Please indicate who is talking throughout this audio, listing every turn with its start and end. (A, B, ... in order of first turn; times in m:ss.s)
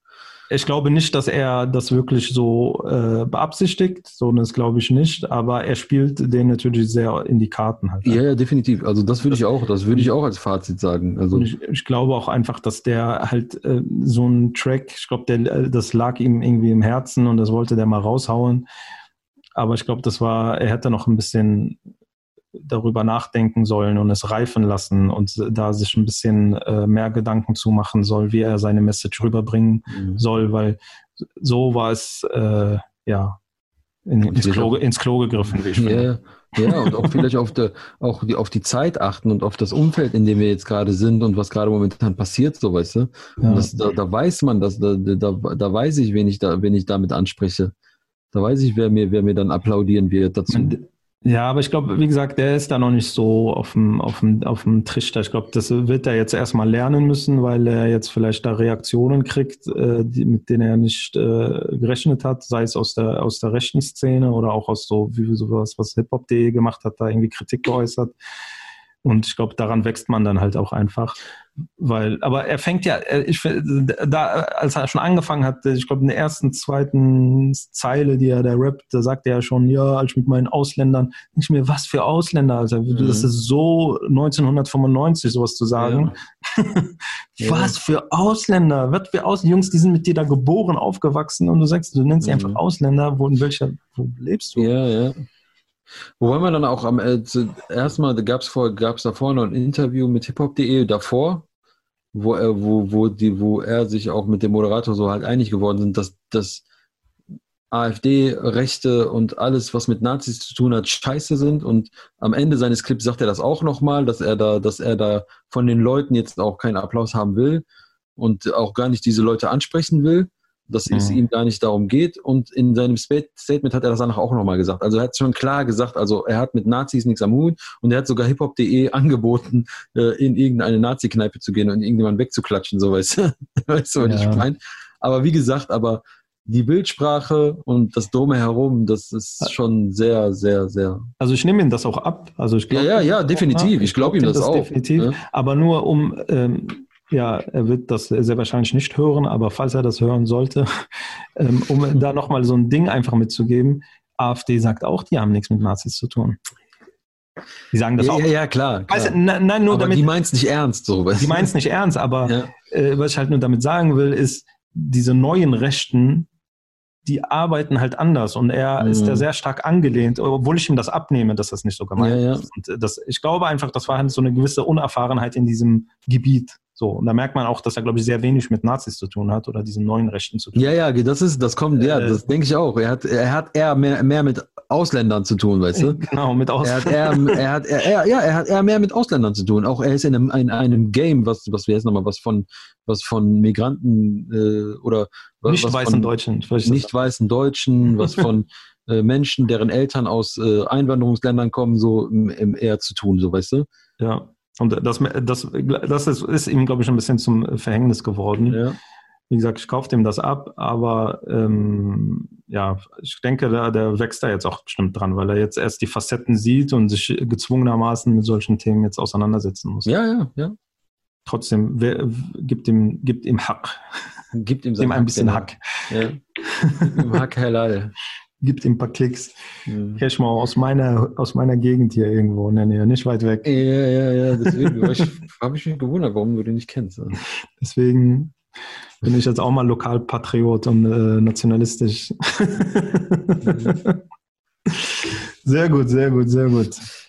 0:00.5-0:08.2 A
0:08.0-0:11.5 B
0:11.3-0:18.7 A
0:19.6-0:21.8 A
0:22.6-0:33.4 A
0:29.9-0:30.2 B
0:34.1-0:37.2 A
0:34.3-0:34.7 B
0:35.8-0:47.7 B
0:43.4-0:43.7 A
0:48.3-0:50.8 B
0:50.5-1:08.1 A
1:09.0-1:11.2 A
1:11.8-1:34.7 A
1:22.9-1:23.3 B
1:25.8-1:26.1 B
1:27.4-1:27.8 B
1:32.2-1:32.6 B
1:34.6-1:35.2 B
1:36.2-1:41.5 B
1:42.1-1:46.6 B
1:47.7-1:57.6 B
1:58.2-2:21.1 B
2:00.9-2:01.2 A
2:14.0-2:14.5 A
2:21.2-2:30.7 A
2:22.7-2:25.2 B
2:31.4-2:36.4 A
2:37.7-2:38.2 A
2:38.0-2:41.5 B
2:38.9-2:40.1 A
2:41.2-2:46.3 A
2:42.2-2:42.5 B
2:47.0-3:00.8 A
2:48.8-2:49.3 B
2:52.0-2:52.5 B
3:00.6-3:06.0 B
3:01.8-3:02.2 A
3:05.8-3:07.4 A
3:06.6-3:16.1 B
3:15.5-3:16.9 A
3:16.6-3:23.7 B
3:24.0-3:28.6 A
3:28.5-3:28.8 B
3:29.3-3:39.9 A
3:39.9-3:40.6 B
3:41.3-3:43.8 A
3:44.3-3:46.2 B
3:44.8-3:45.6 A
3:46.4-3:47.1 A
3:46.9-3:47.9 B
3:48.4-3:49.4 A
3:49.7-3:50.0 B
3:50.0-3:53.5 A
3:53.4-3:57.2 B
3:54.4-3:55.1 A
3:57.6-3:58.4 A
3:59.0-4:04.0 A
4:03.4-4:03.8 B
4:04.7-4:06.9 A